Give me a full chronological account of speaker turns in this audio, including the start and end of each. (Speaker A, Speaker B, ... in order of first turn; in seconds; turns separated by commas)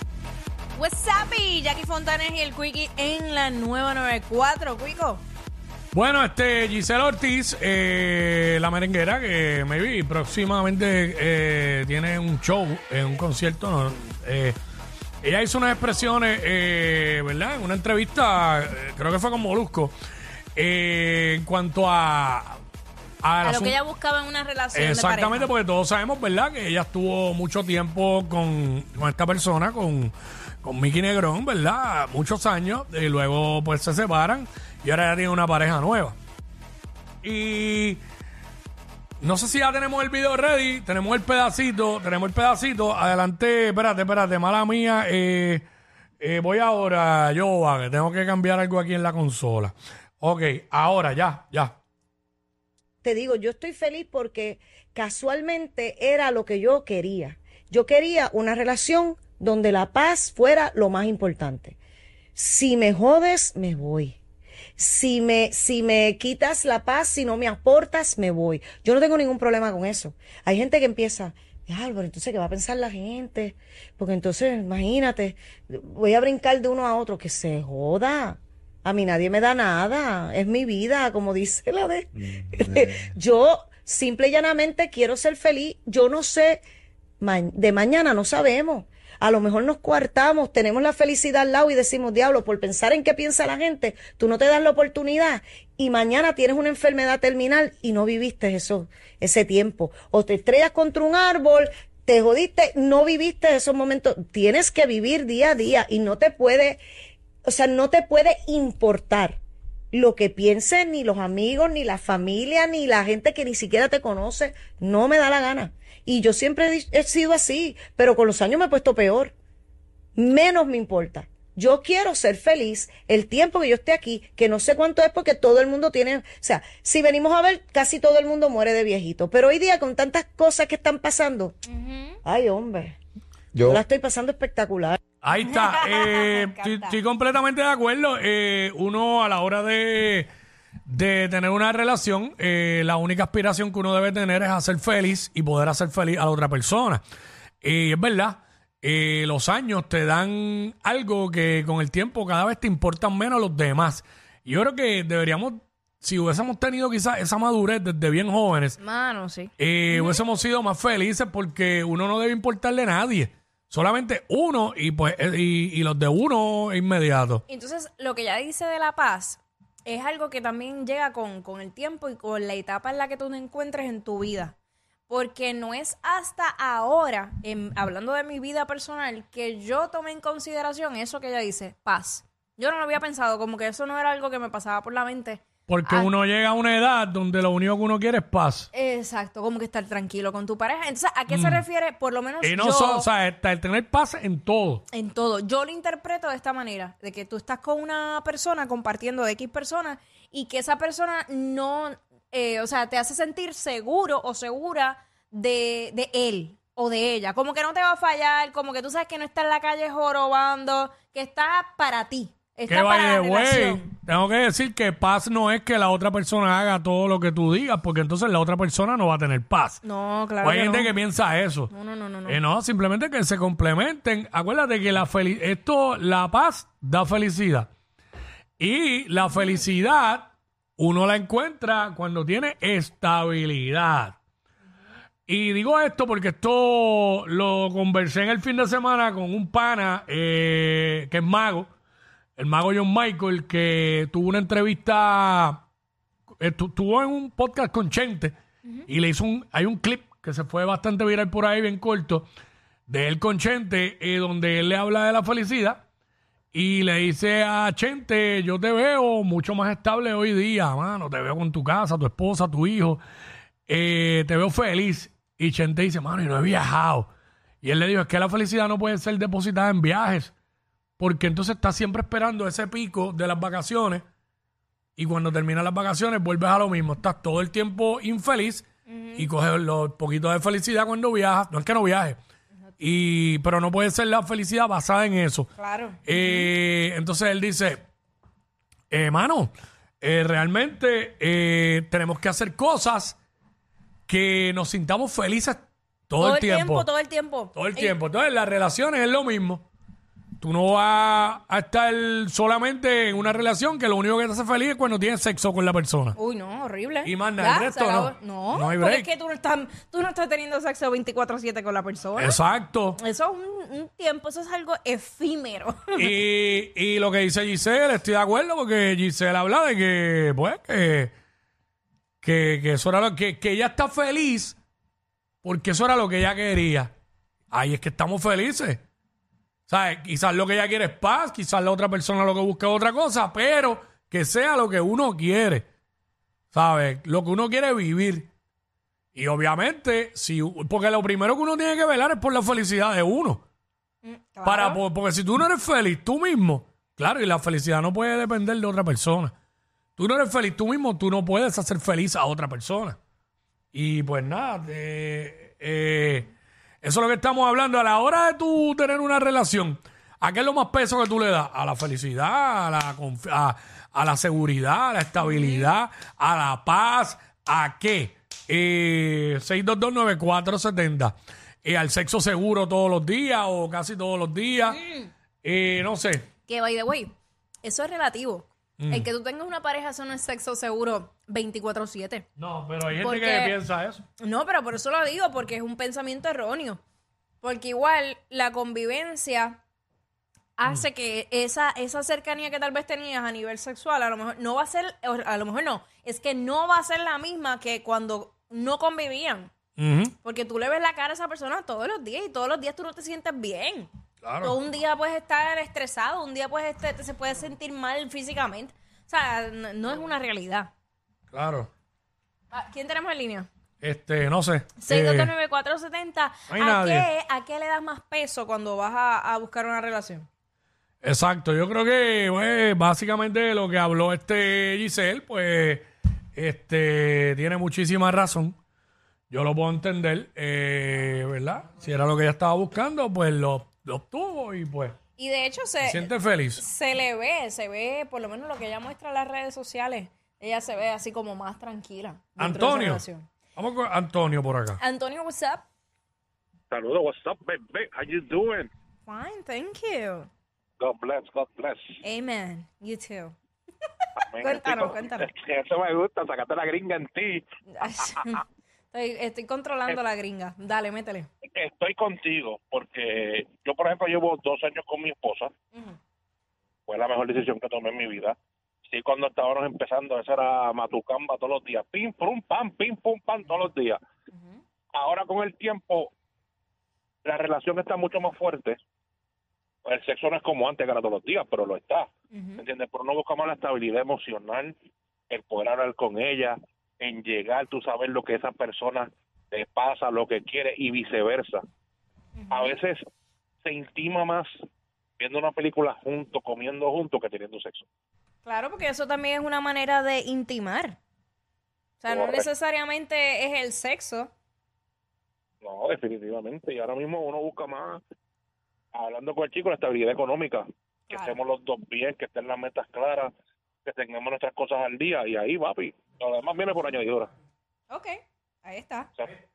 Speaker A: 0.8-5.2, Speaker B: 5.9-14.6, Speaker B: 15.2-19.9, Speaker B: 20.6-22.6, Speaker B: 23.2-23.8, Speaker A: 23.6-25.5, Speaker B: 24.7-36.1, Speaker B: 37.2-38.0, Speaker B: 39.2-45.6, Speaker B: 46.2-51.8, Speaker C: 53.0-61.8, Speaker C: 62.4-64.2, Speaker C: 64.8-86.6, Speaker C: 87.2-106.8, Speaker C: 107.5-109.4, Speaker C: 109.9-119.3, Speaker C: 120.2-131.6, Speaker A: 131.6-132.2, Speaker C: 132.2-133.0, Speaker C: 133.6-135.0, Speaker B: 135.2-140.3, Speaker A: 135.4-136.9, Speaker B: 140.9-147.0, Speaker B: 147.6-158.8, Speaker A: 158.8-160.2, Speaker B: 159.6-167.4, Speaker A: 167.5-174.5, Speaker A: 175.1-186.1, Speaker B: 185.7-188.7, Speaker A: 188.7-192.9, Speaker B: 191.3-191.7, Speaker B: 192.4-194.8, Speaker A: 194.9-213.8, Speaker B: 212.7-219.8, Speaker A: 219.9-220.9, Speaker B: 220.4-221.7, Speaker A: 221.7-222.3, Speaker B: 222.3-227.7, Speaker B: 228.6-234.2, Speaker B: 235.3-241.7, Speaker B: 242.4-245.6, Speaker B: 246.4-248.3, Speaker B: 248.9-252.2, Speaker B: 252.9-255.8, Speaker B: 256.5-263.0, Speaker B: 263.7-267.1, Speaker B: 267.6-270.3, Speaker B: 271.0-274.0, Speaker B: 275.0-282.2, Speaker A: 278.9-279.2, Speaker B: 282.8-285.5, Speaker A: 285.6-286.5, Speaker B: 286.0-287.8, Speaker B: 288.9-293.2, Speaker B: 294.1-296.9, Speaker A: 296.3-297.9, Speaker B: 297.5-299.6, Speaker B: 300.4-306.2, Speaker A: 306.2-312.3, Speaker B: 307.0-309.1, Speaker B: 312.2-313.0, Speaker A: 313.0-316.0, Speaker B: 315.9-321.1, Speaker B: 322.2-324.6, Speaker B: 325.4-326.9, Speaker B: 327.5-328.8, Speaker B: 329.7-335.6, Speaker B: 336.5-338.3, Speaker B: 339.1-343.4, Speaker A: 344.0-344.8, Speaker B: 344.4-349.3, Speaker B: 350.0-353.0, Speaker B: 353.7-356.3, Speaker B: 356.8-374.8, Speaker A: 365.3-365.6, Speaker A: 374.7-375.1, Speaker B: 375.4-376.3, Speaker A: 376.5-382.2, Speaker B: 378.8-379.1, Speaker B: 382.4-384.0, Speaker A: 383.0-383.5, Speaker A: 384.2-386.8, Speaker A: 387.4-389.6, Speaker A: 390.6-399.5, Speaker B: 399.8-400.1, Speaker A: 400.2-403.9, Speaker B: 404.2-404.6, Speaker A: 404.5-410.7, Speaker B: 411.3-411.7, Speaker A: 412.5-413.5, Speaker B: 413.8-415.3, Speaker A: 414.8-420.3, Speaker B: 416.5-417.1, Speaker B: 421.0-428.5, Speaker B: 429.3-435.0, Speaker A: 435.2-436.0, Speaker B: 435.8-436.6, Speaker A: 436.6-443.3, Speaker B: 442.4-444.8, Speaker A: 444.8-445.6, Speaker D: 446.7-448.7, Speaker A: 449.1-450.3, Speaker D: 450.8-451.9, Speaker A: 452.0-453.4, Speaker D: 454.2-458.4, Speaker A: 454.4-455.2, Speaker A: 457.8-461.3, Speaker D: 461.4-465.5, Speaker D: 466.9-468.4, Speaker D: 468.9-474.0, Speaker D: 474.9-476.1, Speaker D: 477.2-478.8, Speaker D: 479.8-484.7, Speaker A: 482.3-482.6, Speaker D: 485.3-491.6, Speaker A: 492.4-492.7, Speaker D: 492.5-493.0, Speaker D: 493.6-494.5, Speaker D: 495.2-497.8, Speaker A: 498.4-501.0, Speaker A: 502.0-504.3, Speaker D: 502.1-502.5, Speaker D: 505.6-508.0, Speaker D: 508.9-513.3, Speaker D: 513.8-517.3, Speaker A: 517.9-519.1